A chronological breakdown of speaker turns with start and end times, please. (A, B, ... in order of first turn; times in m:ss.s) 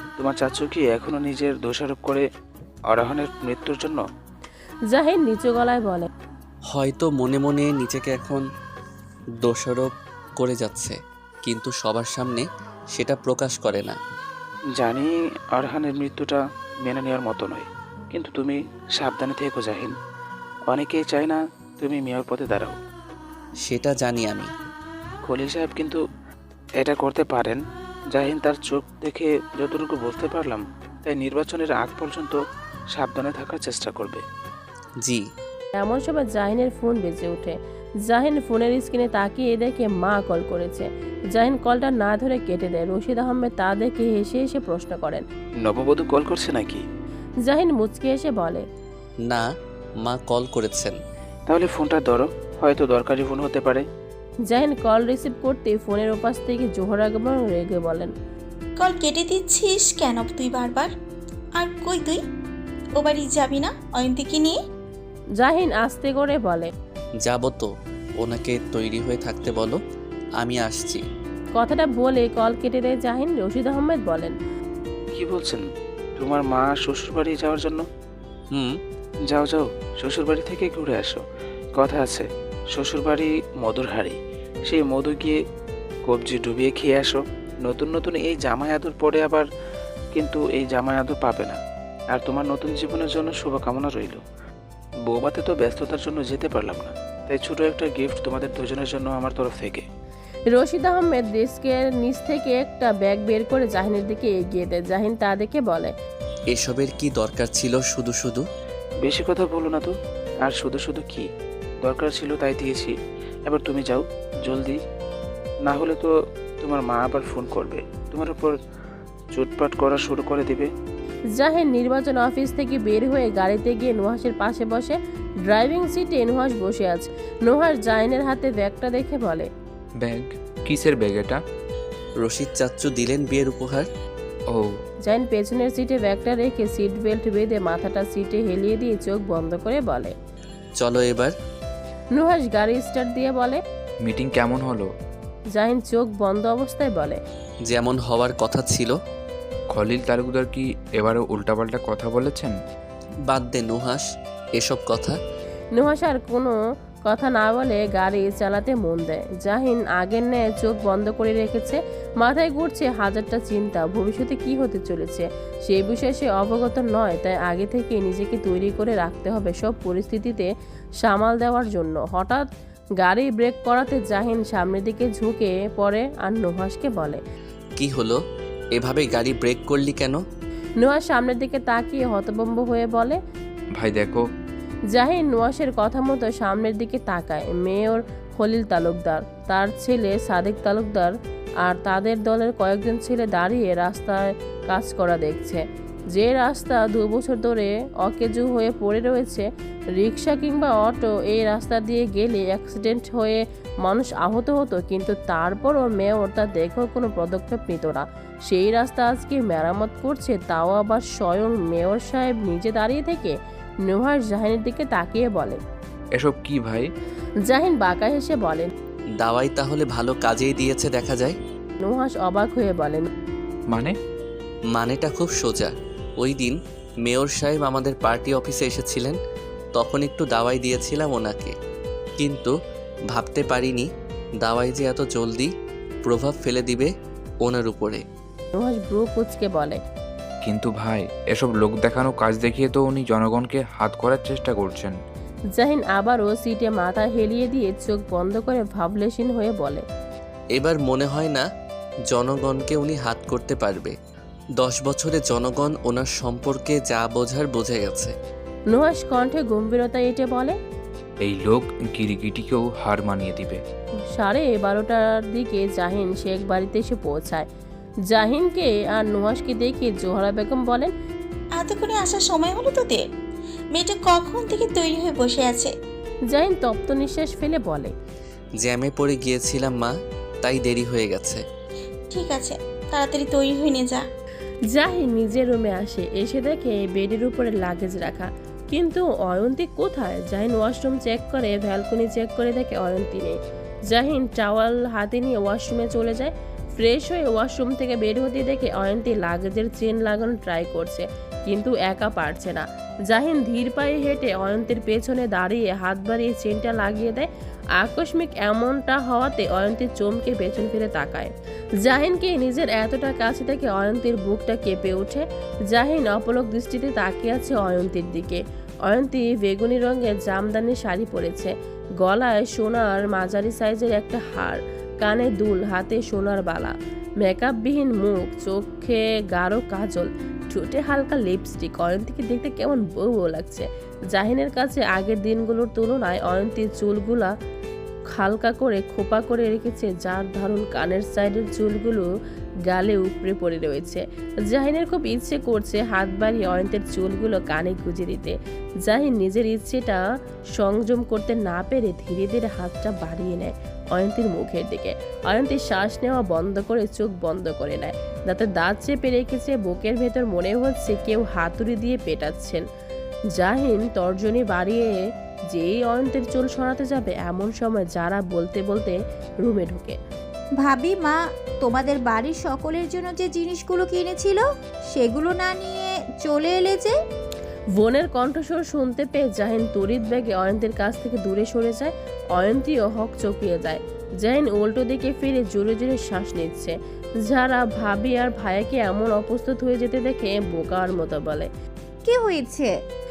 0:00.2-0:02.2 A
0:02.9-0:04.0 A
0:04.9-0:06.1 B
0:06.7-0:08.4 C
0:09.4-0:14.0 C
0:14.8-0:19.9 A
0:20.7-0:22.8 A
0:23.6-0:24.5 C
0:25.2-0:26.0 A
0:26.8-0:32.4 A
0:32.9-0:34.2 A
0:35.8-0:45.2 B
0:45.6-0:46.9 A
0:47.4-0:48.6 B
0:50.0-0:51.0 C
0:51.5-0:53.9 A
0:54.5-0:58.1 B
0:58.8-1:00.9 D
1:01.6-1:02.2 D
1:03.0-1:04.6 D
1:05.4-1:06.7 B
1:07.2-1:07.7 C
1:08.2-1:09.8 C
1:10.4-1:11.0 C
1:11.6-1:14.4 B
1:15.1-1:15.6 A
1:16.2-1:17.8 A
1:19.3-1:21.2 A
1:21.8-1:25.4 A
1:26.0-1:29.4 A
1:30.1-1:31.6 A
1:32.1-1:34.2 A
1:35.0-1:39.9 A
1:40.5-1:45.9 B
1:46.5-1:48.4 C
1:49.0-1:51.3 A
1:51.8-1:54.8 A
1:55.6-1:58.6 A
1:59.3-2:00.7 A
2:01.3-2:09.5 B
2:10.0-2:11.4 E
2:12.2-2:13.9 C
2:15.0-2:20.1 B
2:20.8-2:21.3 C
2:22.1-2:23.6 B
2:24.0-2:24.9 E
2:25.5-2:27.2 B
2:27.6-2:29.0 C
2:29.7-2:32.6 E
2:33.3-2:34.0 C
2:34.6-2:35.2 C
2:35.8-2:50.5 B
2:51.0-2:52.4 B
2:53.0-2:57.2 B
2:57.8-2:58.2 C
2:58.8-3:00.2 C
3:00.8-3:03.2 B
3:03.8-3:04.2 E
3:04.9-3:35.6 B
3:36.2-3:36.9 E
3:37.5-3:38.7 B
3:39.2-3:41.4 C
3:41.8-3:43.1 B
3:43.7-3:43.9 E
3:44.7-3:49.2 C
3:49.8-3:51.5 C
3:52.2-3:52.5 C
3:53.1-3:53.8 C
3:54.4-3:55.5 C
3:56.0-3:56.9 C
3:57.4-3:58.0 C
3:58.6-3:59.8 B
4:00.4-4:05.0 E
4:05.6-4:09.8 B
4:10.6-4:11.4 C
4:12.1-4:14.0 C
4:14.6-4:18.1 C
4:18.7-4:20.6 B
4:21.2-4:23.6 E
4:24.1-4:27.5 B
4:28.1-4:30.9 B
4:31.6-4:33.0 D
4:33.7-4:35.7 D
4:36.3-4:37.9 B
4:38.6-4:41.4 C
4:42.1-4:44.0 D
4:44.7-5:37.3 B
5:38.1-5:42.1 B
5:42.7-5:50.0 B
5:50.6-6:02.6 B
6:03.4-6:04.9 B
6:05.5-6:10.0 B
6:10.6-6:14.4 F
6:14.9-6:16.9 F
6:17.8-6:31.5 B
6:32.1-6:32.7 F